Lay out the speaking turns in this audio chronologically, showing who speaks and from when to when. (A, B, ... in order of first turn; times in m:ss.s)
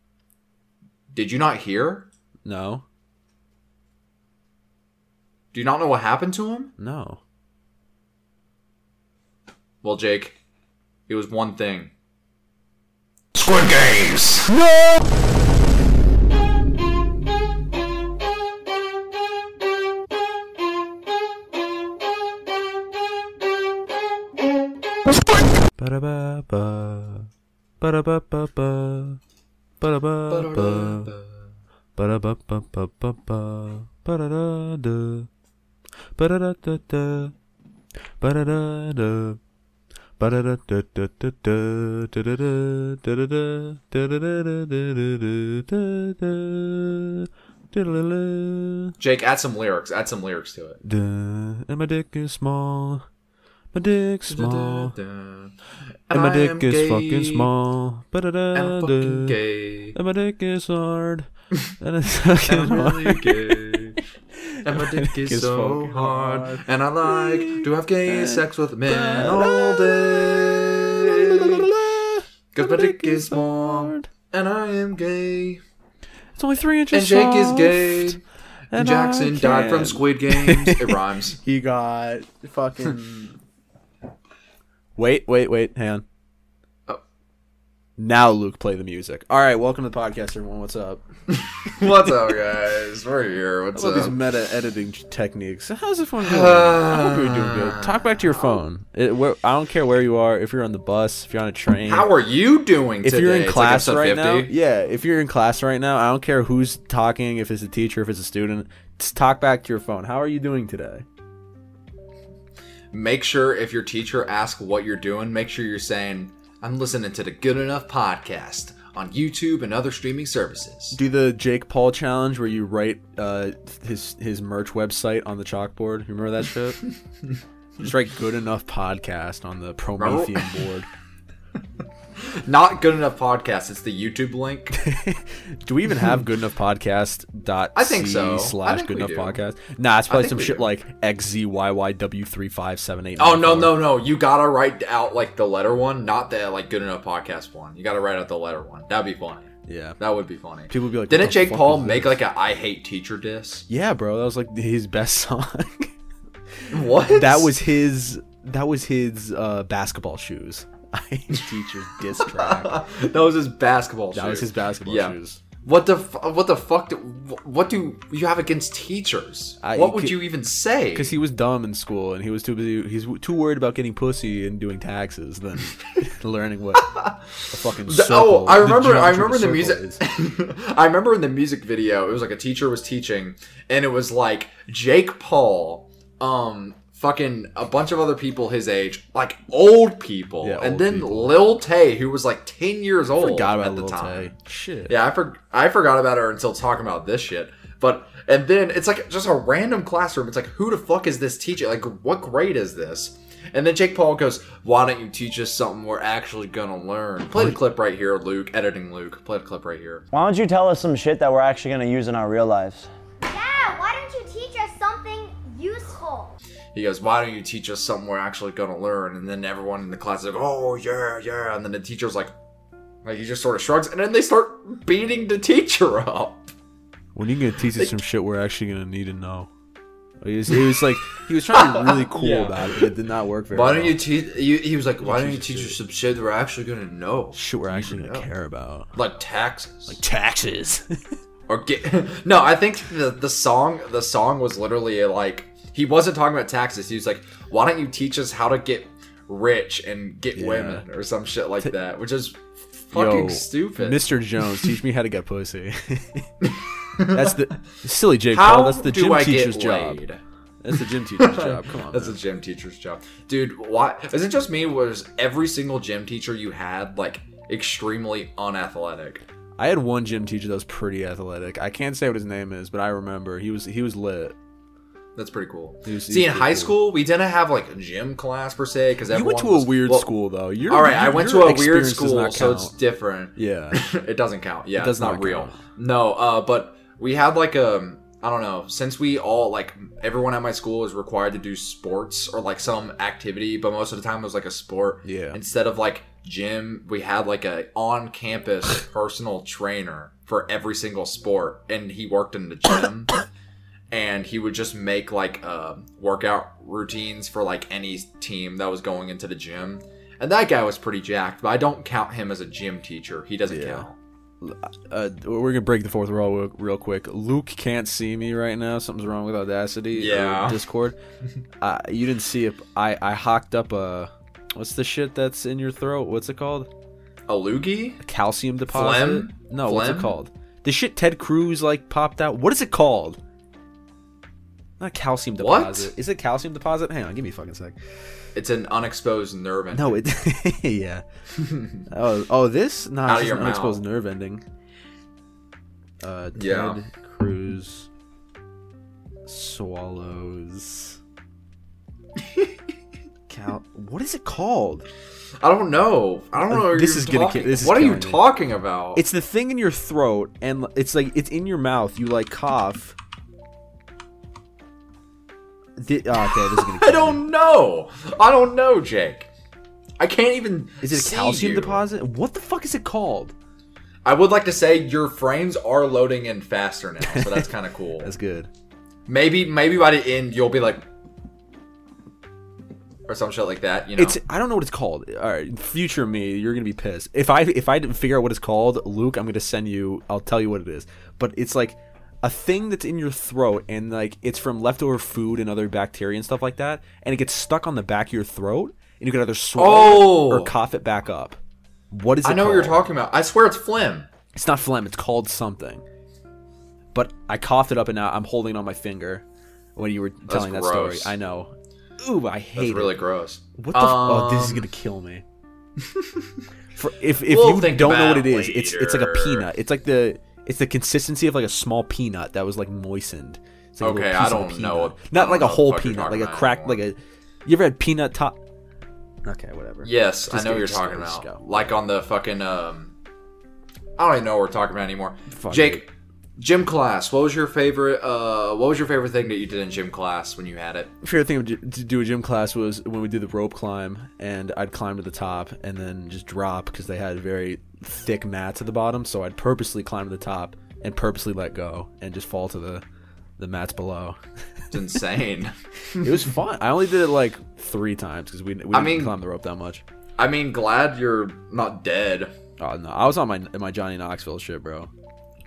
0:01.1-0:02.1 A
0:02.4-0:02.8 B
0:05.5-0:06.7 A
0:06.8-0:07.2 B
0:09.8-0:10.4 A
0:11.1-0:11.9 A
0:13.3-0:14.5 A
0:25.8-0:27.3 B
0:27.8-0:29.2 B
0:29.8-0:31.1 B
0:30.3-0:31.5 A
0:32.0-0:35.3 B
0:36.2-0:37.3 B
0:38.2-0:39.4 B
0:40.2-0:49.0 B
0:49.0-0:50.8 A
0:50.8-0:53.0 B
0:53.7-0:55.0 B
0:54.3-0:55.6 A
0:56.1-0:57.5 A
0:56.1-0:59.4 B
0:58.5-1:00.0 A
0:59.9-1:01.3 B
1:01.8-1:14.1 B
1:02.5-1:04.0 A
1:04.6-1:11.7 A
1:12.5-1:15.6 A
1:16.4-1:18.2 B
1:16.9-1:18.2 A
1:18.7-1:23.4 B
1:18.7-1:21.4 A
1:25.0-1:26.0 B
1:28.0-1:31.0 B
1:31.3-1:34.2 A
1:33.7-1:42.1 B
1:36.2-1:38.6 A
1:41.8-1:44.5 A
1:43.0-1:51.0 B
1:52.9-2:01.0 A
2:00.9-2:06.9 B
2:07.8-2:10.9 B
2:10.0-2:10.6 A
2:12.2-2:14.8 A
2:14.7-2:23.8 B
2:17.8-2:19.4 A
2:20.1-2:20.7 A
2:23.2-2:33.7 A
2:29.7-2:30.0 B
2:30.7-2:32.2 B
2:33.7-2:35.9 B
2:36.6-2:42.8 B
2:36.7-2:37.6 A
2:42.2-2:51.1 A
2:44.1-2:45.4 B
2:49.6-2:50.2 B
2:50.9-2:56.9 B
2:56.8-2:57.3 A
2:57.5-3:00.0 B
2:57.9-3:14.3 A
3:10.4-3:11.5 B
3:13.2-3:15.0 B
3:14.9-3:30.0 A
3:30.1-3:32.9 C
3:33.2-3:36.3 D
3:36.7-3:42.3 A
3:43.0-3:46.5 A
3:47.2-3:49.5 B
3:50.2-3:54.0 B
3:50.5-3:50.8 A
3:51.5-3:52.9 A
3:53.5-3:58.3 A
3:55.0-3:55.8 B
3:57.3-3:58.9 B
3:59.0-4:00.0 A
3:59.9-4:01.0 B
4:01.5-4:14.1 A
4:10.3-4:10.8 B
4:12.9-4:20.0 B
4:16.4-4:17.4 A
4:18.3-4:20.2 A
4:20.6-4:22.2 B
4:21.2-4:29.2 A
4:29.6-4:34.3 B
4:35.2-4:40.1 A
4:35.8-4:36.8 B
4:39.1-4:42.7 B
4:40.7-5:03.2 A
4:43.4-4:43.8 B
4:44.8-4:45.6 B
4:55.0-4:55.4 B
5:03.9-5:14.0 A
5:13.5-5:13.9 B
5:14.4-5:21.0 B
5:19.9-5:20.6 A
5:21.6-5:26.7 B
5:27.3-5:28.0 A
5:28.0-5:33.2 B
5:28.7-5:30.1 A
5:34.8-5:37.8 B
5:35.4-5:35.9 A
5:38.3-5:40.0 A
5:39.7-5:41.0 B
5:41.3-5:41.8 A
5:41.9-5:44.4 B
5:43.0-5:43.8 A
5:46.0-5:47.9 B
5:46.4-5:46.8 A
5:49.2-5:51.0 B
5:53.3-5:54.9 B
5:55.4-5:59.0 A
5:56.5-5:58.3 B
5:58.9-6:03.0 B
6:05.8-6:07.2 B
6:06.2-6:09.3 A
6:10.0-6:11.8 A
6:10.8-6:13.3 B
6:14.0-6:18.1 A
6:17.1-6:17.4 B
6:18.0-6:18.5 B
6:19.1-6:20.8 A
6:23.1-6:24.2 A
6:24.0-6:41.4 B
6:39.6-6:40.5 A
6:41.9-6:42.8 B
6:42.2-6:44.1 A
6:44.3-6:45.8 B
6:46.9-6:49.2 B
6:49.8-6:53.0 B
6:50.3-6:51.1 A
6:52.6-6:54.7 A
6:53.6-6:55.2 B
6:55.8-6:56.4 A
6:56.8-7:08.4 B
6:57.3-6:59.5 A
7:03.8-7:06.8 A
7:09.2-7:11.8 B
7:09.8-7:12.9 A
7:14.0-7:20.9 A
7:15.3-7:15.8 B
7:21.0-7:32.8 B
7:33.4-7:34.2 B
7:34.7-7:36.3 A
7:36.0-7:39.8 B
7:38.7-7:39.2 A
7:40.2-7:42.3 A
7:42.6-7:44.9 B